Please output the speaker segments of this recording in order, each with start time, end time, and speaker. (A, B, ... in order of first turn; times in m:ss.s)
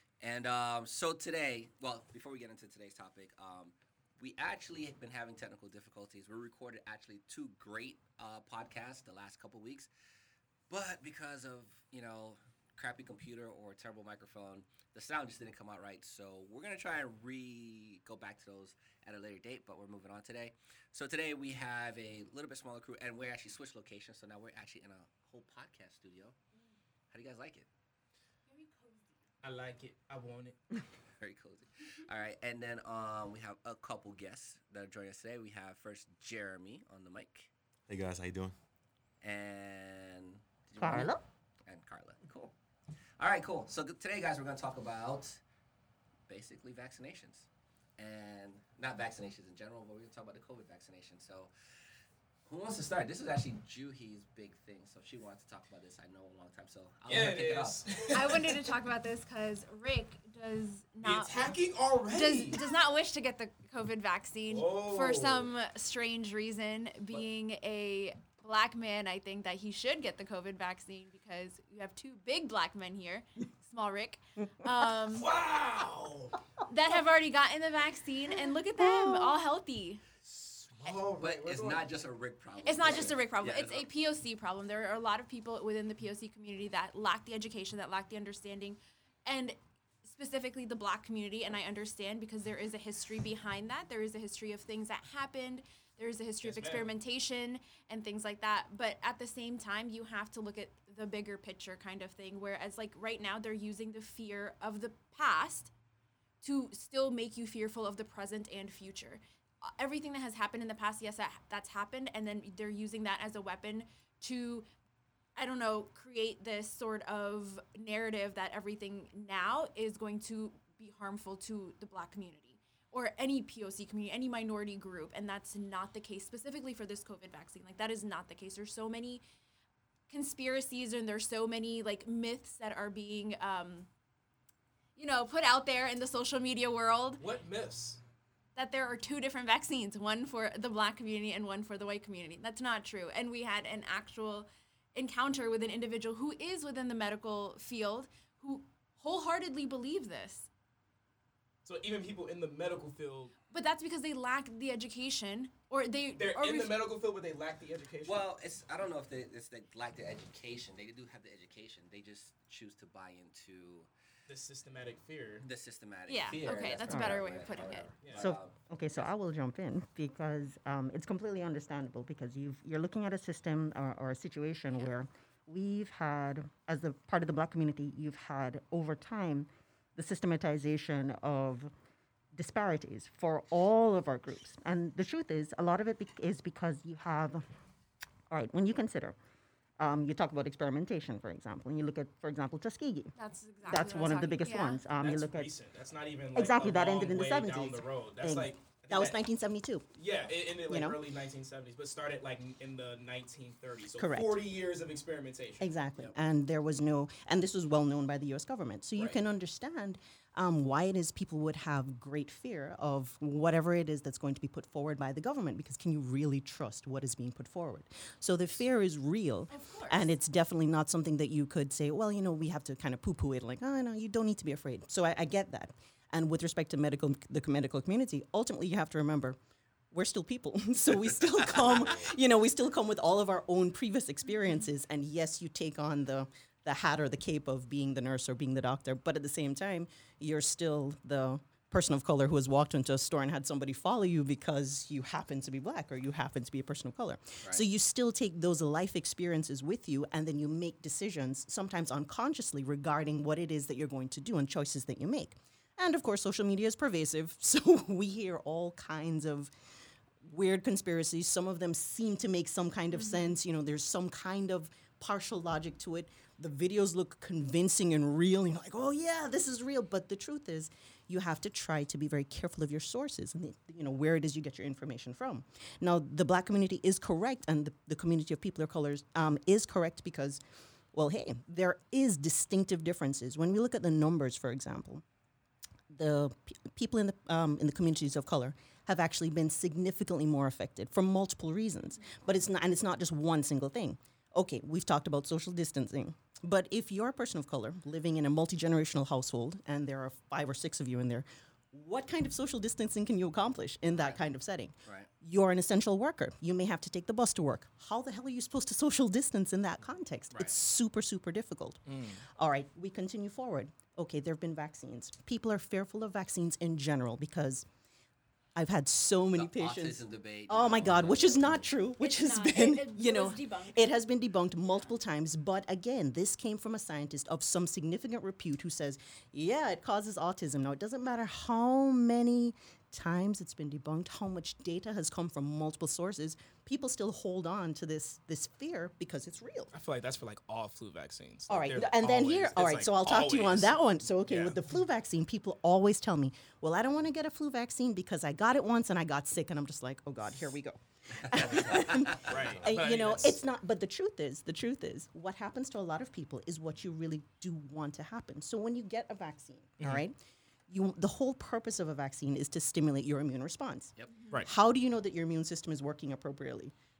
0:00.2-0:09.9 A
0:10.7-0:26.4 A
0:27.1-0:27.7 A
0:28.5-0:29.1 B
0:29.4-0:30.6 C
0:31.2-0:37.5 A
0:37.9-0:38.6 D
0:39.2-0:42.5 A
0:40.8-0:41.2 E
0:43.2-0:45.4 A
0:46.3-0:51.5 A
0:52.5-0:57.9 A
0:57.1-0:58.7 C
0:58.1-1:15.3 B
1:01.0-1:02.7 C
1:04.5-1:05.5 C
1:15.0-1:16.4 C
1:16.7-1:20.0 B
1:18.8-1:19.4 E
1:20.3-1:21.8 D
1:21.2-1:23.9 A
1:22.6-1:45.7 B
1:36.4-1:36.9 C
1:46.4-1:54.7 B
1:55.4-2:09.2 B
2:10.1-2:13.9 B
2:15.0-2:17.2 B
2:17.2-2:18.0 C
2:18.5-2:30.5 B
2:31.6-2:33.3 C
2:33.5-2:36.8 B
2:36.2-2:38.2 C
2:38.0-2:43.9 A
2:44.3-2:45.5 C
2:45.4-2:48.6 A
2:46.1-2:47.9 B
2:46.9-2:47.2 E
2:48.0-2:48.3 C
2:48.2-3:01.7 E
3:02.3-3:07.4 E
3:08.3-3:09.2 E
3:09.8-3:13.1 E
3:13.2-3:14.8 B
3:13.6-3:15.5 E
3:15.0-3:19.2 C
3:16.3-3:19.8 E
3:19.9-3:25.7 C
3:20.7-3:21.0 E
3:24.0-3:24.3 E
3:25.6-3:49.4 E
3:39.5-3:40.1 B
3:49.9-4:19.5 E
4:20.2-4:40.4 E
4:22.9-4:23.3 B
4:40.9-4:45.0 E
4:45.9-5:17.7 E
5:11.9-5:12.2 C
5:18.6-5:39.7 E
5:19.4-5:21.7 A
5:22.0-5:23.9 B
5:39.7-5:44.6 C
5:41.5-6:06.7 E
5:51.2-5:52.4 A
5:52.2-5:53.4 C
5:52.3-5:52.8 D